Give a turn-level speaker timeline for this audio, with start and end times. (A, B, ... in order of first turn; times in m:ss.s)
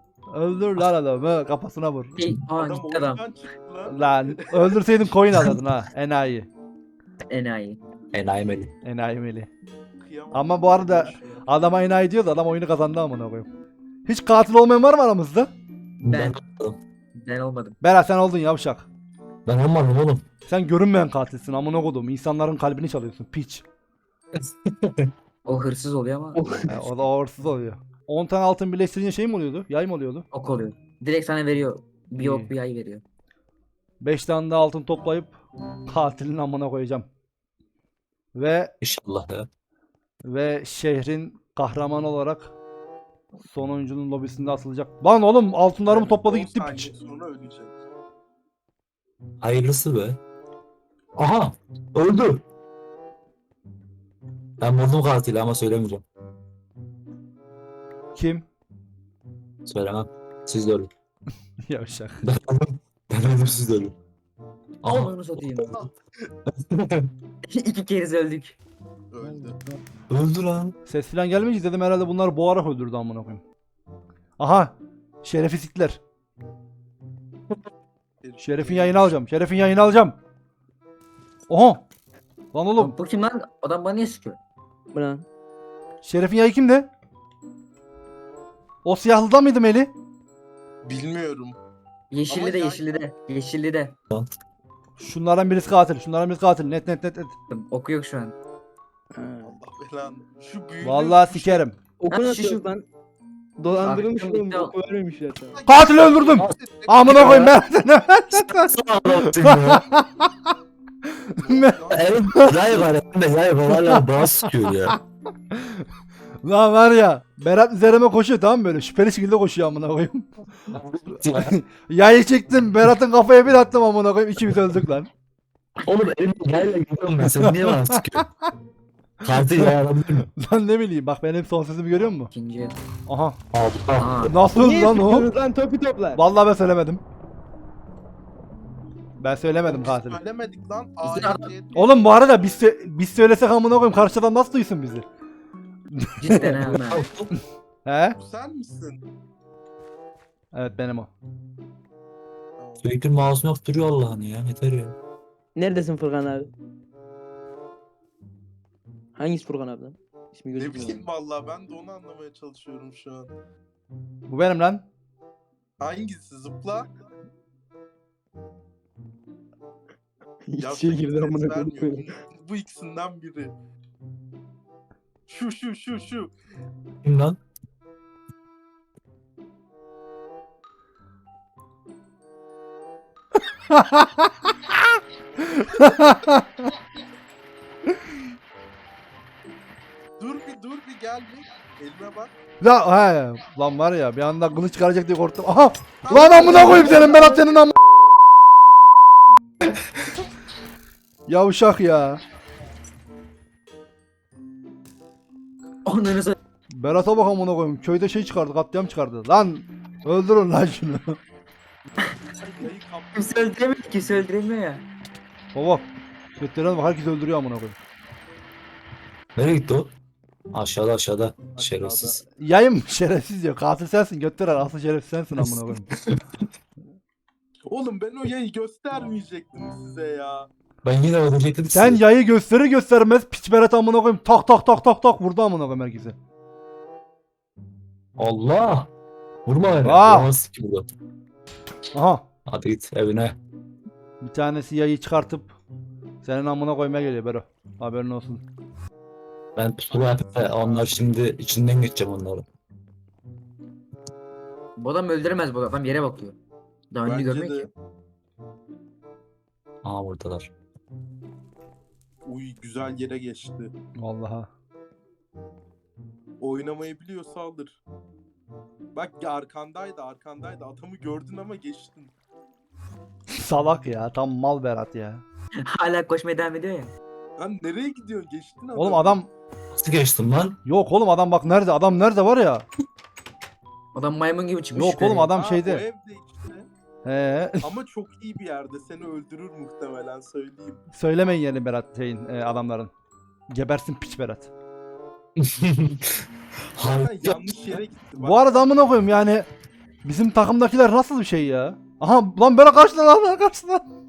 0:00.3-0:02.2 A
0:02.2-0:03.2 B
0:02.6-0:04.8 C
0:03.8-0:06.5 A
0:07.3-0:07.8 B
0:08.1-0:08.7 D
0:08.8-0:09.5 A
0:10.0-0:11.4 C
0:10.3-0:13.5 A
0:14.1-0:15.5 A
0:16.0-0:16.8 D
0:16.0-0:16.4 B
0:17.1-0:17.8 B
0:17.8-0:18.9 A
0:19.4-0:20.2 D
0:20.5-0:23.6 A
0:24.4-0:25.1 D
0:25.4-0:26.4 B
0:26.7-0:30.2 A
0:30.3-0:33.0 B
0:32.2-0:32.5 A
0:34.0-0:35.4 A
0:35.9-0:37.1 A
0:38.4-0:38.7 A
0:38.8-0:39.5 D
0:40.3-0:42.5 A
0:43.4-0:46.9 A
0:45.9-0:47.8 C
0:49.4-0:50.2 D
0:51.2-0:52.4 D
0:54.6-0:56.0 D
0:58.2-0:58.5 A
0:59.6-1:00.9 D
1:01.7-1:02.2 A
1:02.2-1:04.0 D
1:04.8-1:05.4 D
1:04.9-1:05.8 B
1:06.7-1:07.1 D
1:07.5-1:08.6 B
1:09.1-1:09.6 C
1:10.1-1:10.8 D
1:10.9-1:13.4 A
1:14.4-1:16.0 A
1:18.2-1:19.1 C
1:18.4-1:20.2 A
1:21.5-1:21.8 A
1:22.5-1:22.9 A
1:22.8-1:24.4 B
1:24.9-1:25.2 E
1:26.0-1:26.9 A
1:28.8-1:29.9 A
1:30.8-1:31.6 C
1:32.1-1:33.9 B
1:32.3-1:33.0 C
1:34.1-1:34.4 D
1:35.0-1:37.4 A
1:37.5-1:38.3 B
1:39.1-1:39.6 E
1:39.4-1:41.6 C
1:40.8-1:41.8 A
1:42.0-1:42.9 E
1:42.1-1:42.6 B
1:43.6-1:45.6 E
1:43.8-1:44.7 B
1:45.5-1:47.5 C
1:45.7-1:50.5 A
1:46.3-1:47.6 D
1:48.3-1:49.9 D
1:51.1-1:52.8 A
1:51.4-1:52.8 C
1:51.9-1:55.0 D
1:53.7-1:55.0 A
1:55.5-1:55.8 A
1:56.4-2:00.3 A
2:00.7-2:01.6 D
2:01.3-2:05.1 A
2:05.8-2:08.3 D
2:07.4-2:08.0 A
2:09.2-2:10.3 D
2:09.3-2:09.7 A
2:10.4-2:12.3 A
2:12.3-2:12.8 B
2:13.1-2:13.4 A
2:13.5-2:14.3 D
2:14.0-2:14.3 B
2:14.3-2:15.3 A
2:14.6-2:16.2 E
2:16.2-2:17.0 A
2:19.2-2:20.2 A
2:19.7-2:22.6 C
2:21.0-2:21.5 B
2:21.8-2:25.0 A
2:25.9-2:26.7 A
2:26.2-2:27.1 B
2:26.8-2:27.3 D
2:27.8-2:28.2 A
2:28.2-2:29.0 C
2:30.5-2:31.1 A
2:32.6-2:32.9 C
2:32.8-2:35.0 D
2:35.6-2:36.5 E
2:39.2-2:41.0 E
2:40.6-2:43.3 C
2:44.3-2:44.8 A
2:45.8-2:46.9 C
2:50.5-2:52.1 E
2:50.6-2:53.6 C
2:55.3-2:56.3 C
2:57.0-2:57.4 D
3:03.7-3:04.8 A
3:05.4-3:06.7 A
3:10.2-3:12.3 C
3:12.6-3:17.8 A
3:16.0-3:17.4 C
3:16.4-3:17.3 B
3:21.3-3:22.2 A
3:25.8-3:26.4 B
3:26.7-3:31.2 A
3:32.3-3:34.3 C
3:33.1-3:34.8 B
3:35.5-3:35.9 A
3:36.4-3:37.8 A
3:39.4-3:39.9 D
3:40.5-3:42.2 D
3:41.6-3:42.2 C
3:42.4-3:45.9 A
3:45.4-3:46.5 D
3:47.7-3:50.5 C
3:50.8-3:52.0 D
3:51.7-3:56.2 A
3:58.2-3:58.9 D
3:59.4-4:00.9 D
3:59.8-4:00.3 A
4:01.9-4:02.2 A
4:02.5-4:03.4 D
4:04.2-4:05.6 A
4:06.2-4:08.4 A
4:09.6-4:12.5 D
4:10.6-4:10.9 C
4:14.8-4:16.4 B
4:16.9-4:17.6 B
4:17.0-4:17.7 C
4:19.8-4:20.5 D
4:22.2-4:23.7 C
4:24.0-4:24.5 A
4:26.4-4:27.8 C
4:29.0-4:32.1 C
4:33.3-4:35.2 A
4:35.7-4:36.9 B
4:37.4-4:39.2 C
4:38.8-4:39.3 A
4:39.7-4:40.6 D
4:40.6-4:42.6 A
4:44.0-4:45.3 B
4:44.7-4:45.8 A
4:45.3-4:46.7 C
4:47.0-4:47.7 A
4:47.6-4:50.8 C
4:50.9-4:52.9 A
4:53.5-4:54.5 A
4:55.4-4:56.2 D
4:56.8-4:57.4 D
4:57.0-4:58.8 C
4:58.2-4:59.5 A
5:00.0-5:03.8 A